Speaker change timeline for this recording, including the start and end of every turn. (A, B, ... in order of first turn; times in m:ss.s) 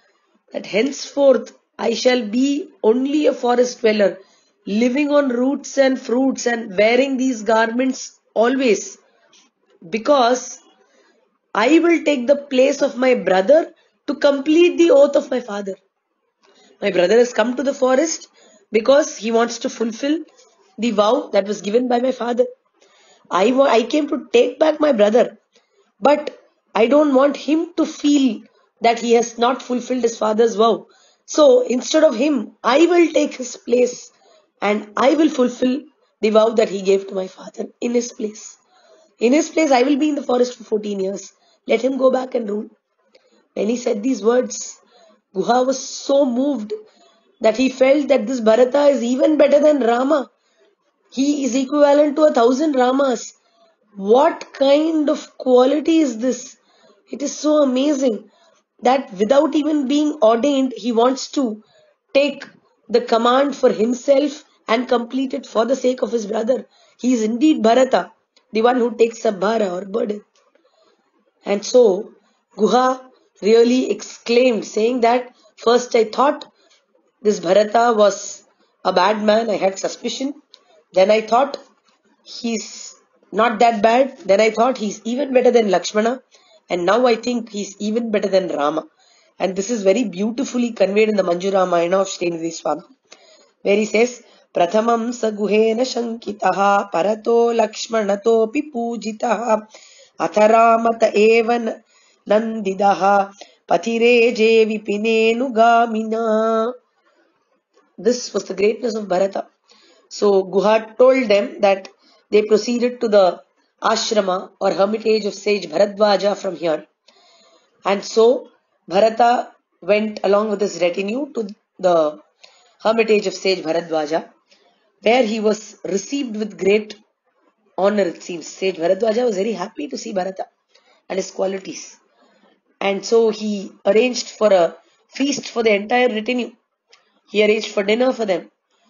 0:00.5-0:09.0 A
0:09.9-0:10.6 A
0:11.6-0:15.8 A
0:16.8-0:20.2 A
0:20.8-0:22.5 A
0:23.3-0:25.4 A
0:26.0-0:38.6 A
0:39.2-0:42.7 A
0:43.5-0:44.8 A
0:45.3-0:46.7 A
0:47.4-0:50.3 A
0:51.1-0:53.3 A
0:54.0-0:56.6 A
0:57.1-0:58.3 A
0:58.8-1:10.2 A
1:11.4-1:16.4 A
1:17.2-1:20.4 A
1:20.9-1:21.6 A
1:22.3-1:26.2 A
1:26.7-1:28.8 A
1:29.4-1:32.9 A
1:33.6-1:39.7 A
1:40.2-1:41.7 A
1:42.3-1:46.7 A
1:48.0-1:49.5 A
1:50.1-1:56.8 A
1:57.8-2:02.2 A
2:02.8-2:04.2 A
2:05.0-2:07.0 A
2:07.8-2:10.5 A
2:11.1-2:12.0 A
2:12.8-2:16.5 A
2:17.3-2:18.5 A